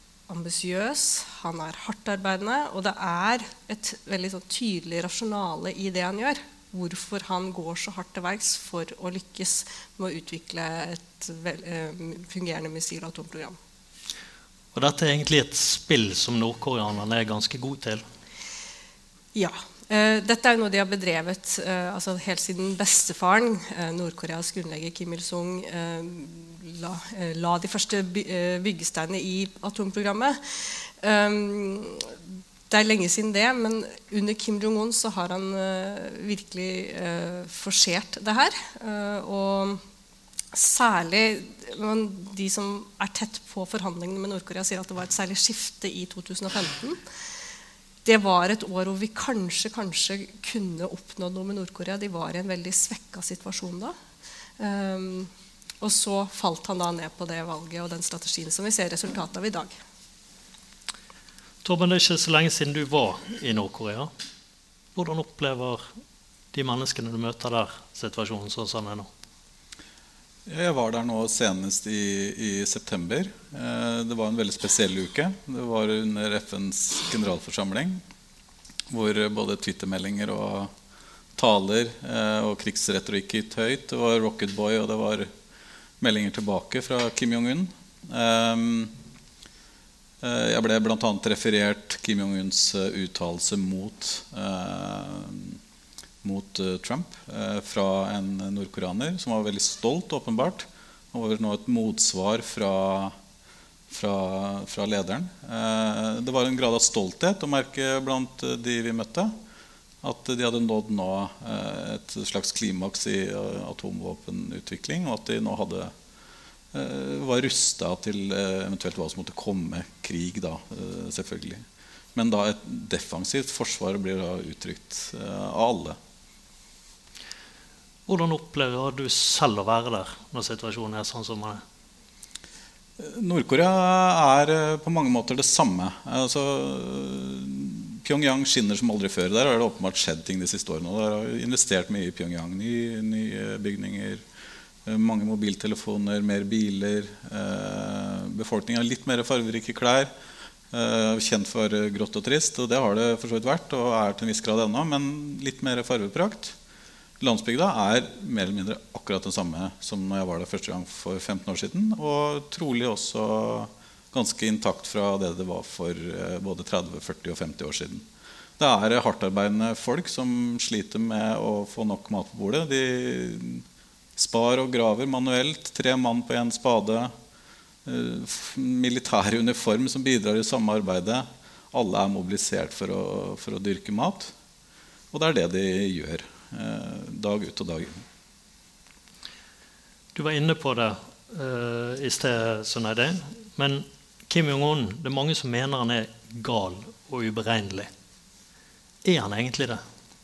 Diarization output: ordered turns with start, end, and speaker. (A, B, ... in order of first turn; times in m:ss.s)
0:00.3-0:13.6 A
0:14.7-0:18.0 B
0:19.3-0:32.2 A
0:32.7-0:39.8 A
0:40.5-0:47.0 A
0:48.0-0:53.9 A
0:54.6-0:59.7 A
1:01.6-1:04.1 B
1:04.9-1:05.8 B
1:06.5-1:09.1 B
1:10.4-1:18.0 C
1:18.9-1:20.7 C
1:21.4-1:25.3 C
1:26.0-1:28.9 C
1:30.2-1:35.6 C
1:36.2-1:43.1 C
1:43.9-1:49.3 C
1:50.0-1:55.9 C
1:56.7-2:01.6 C
2:02.2-2:06.0 C
2:08.1-2:11.6 B
2:13.0-2:24.2 C
2:24.8-2:30.1 C
2:30.7-2:36.6 C
2:37.2-2:48.0 C
2:48.6-2:53.6 C
2:54.2-2:57.1 C
2:57.8-3:04.3 C
3:05.1-3:08.0 C
3:10.2-3:17.9 B
3:19.0-3:19.8 B